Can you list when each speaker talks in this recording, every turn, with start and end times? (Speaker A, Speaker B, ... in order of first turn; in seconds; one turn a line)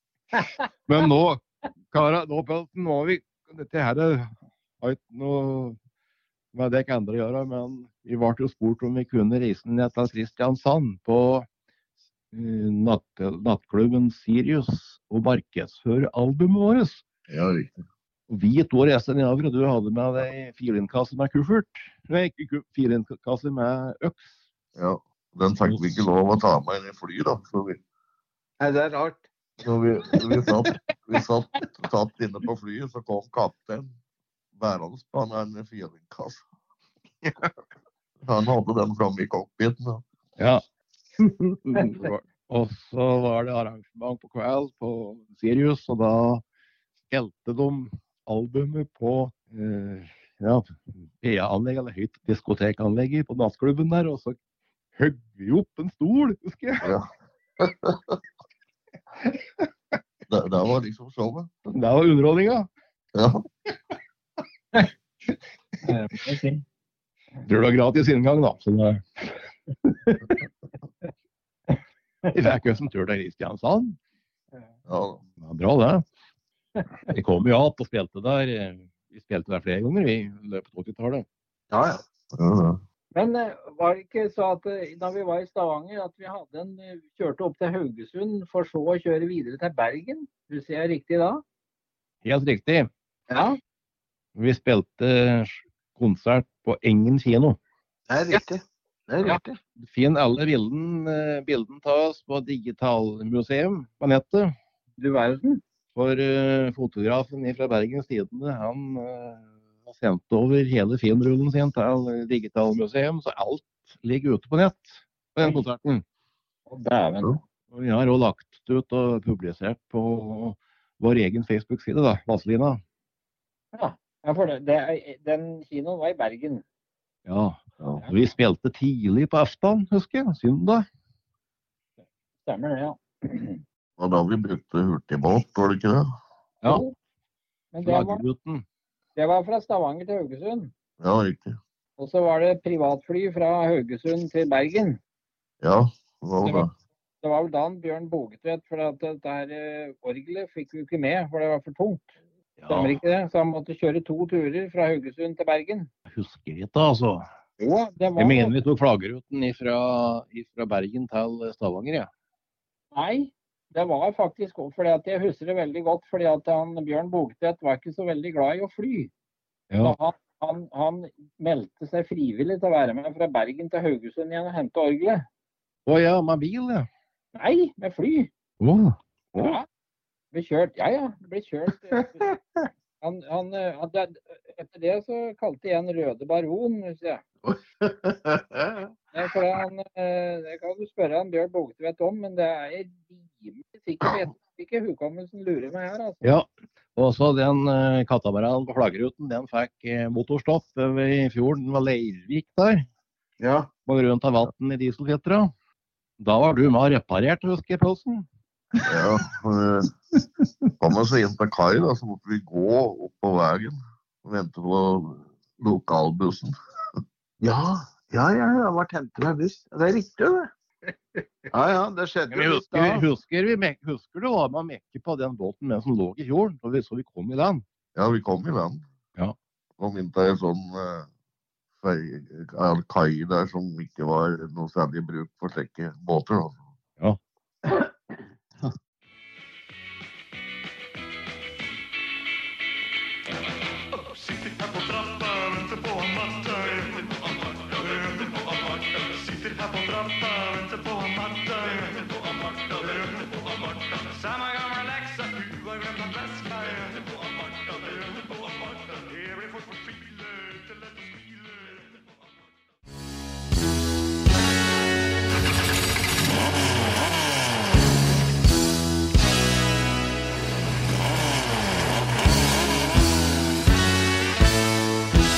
Speaker A: 0.3-0.6
Speaker B: 0.9-5.8
Speaker B: 6.5-11.5
Speaker B: 12.3-17.0
Speaker C: 17.3-17.7
Speaker B: 18.3-24.4
Speaker C: 24.8-27.8
Speaker D: 28.6-29.3
Speaker C: 29.6-33.9
Speaker C: 34.6-36.4
Speaker C: 38.2-40.0
Speaker B: 40.4-40.6
Speaker D: 41.2-42.0
Speaker B: 41.9-46.4
Speaker B: 47.0-54.4
Speaker B: 55.0-56.9
Speaker C: 56.8-57.1
Speaker C: 57.6-58.2
Speaker B: 59.2-59.7
Speaker C: 60.3-61.7
Speaker B: 61.7-62.7
Speaker C: 63.1-63.5
Speaker A: 65.8-66.6
Speaker B: 67.4-69.4
Speaker B: 72.3-74.0
Speaker C: 74.9-75.2
Speaker B: 75.4-76.0
Speaker B: 77.1-81.2
Speaker D: 81.7-82.0
Speaker C: 82.3-82.8
Speaker A: 83.1-91.4
Speaker B: 92.2-92.9
Speaker A: 93.3-93.6
Speaker B: 94.3-97.6
Speaker D: 98.1-99.6
Speaker B: 99.8-104.5
Speaker A: 105.0-105.6
Speaker B: 106.0-116.0
Speaker A: 116.7-117.4
Speaker B: 117.7-122.8
Speaker A: 123.8-126.6
Speaker B: 127.3-130.9
Speaker A: 132.5-133.6
Speaker C: 134.0-136.1
Speaker A: 136.7-136.9
Speaker A: 137.7-138.2
Speaker B: 137.8-138.7
Speaker A: 139.2-140.7
Speaker C: 141.0-141.6
Speaker A: 142.0-145.0
Speaker C: 145.6-146.7
Speaker A: 146.4-146.7
Speaker A: 147.2-152.2
Speaker B: 152.6-153.0
Speaker A: 152.7-155.9
Speaker B: 156.1-157.2
Speaker A: 157.6-158.6
Speaker B: 158.2-162.1
Speaker A: 162.9-169.1
Speaker B: 169.7-170.0
Speaker A: 169.8-175.2
Speaker B: 175.9-176.9
Speaker A: 177.4-178.3
Speaker B: 178.6-179.0
Speaker A: 179.4-179.7
Speaker A: 180.3-182.3
Speaker A: 183.0-187.2
Speaker D: 187.4-188.9
Speaker A: 189.1-196.3
Speaker B: 196.2-202.9
Speaker D: 203.4-203.7
Speaker B: 203.9-205.5
Speaker B: 206.2-208.3
Speaker C: 208.9-209.9
Speaker C: 210.8-216.5
Speaker D: 217.4-220.5
Speaker D: 221.5-223.1
Speaker B: 222.3-227.6
Speaker C: 228.0-228.8
Speaker C: 229.8-231.1
Speaker C: 231.8-236.6
Speaker E: 244.1-262.2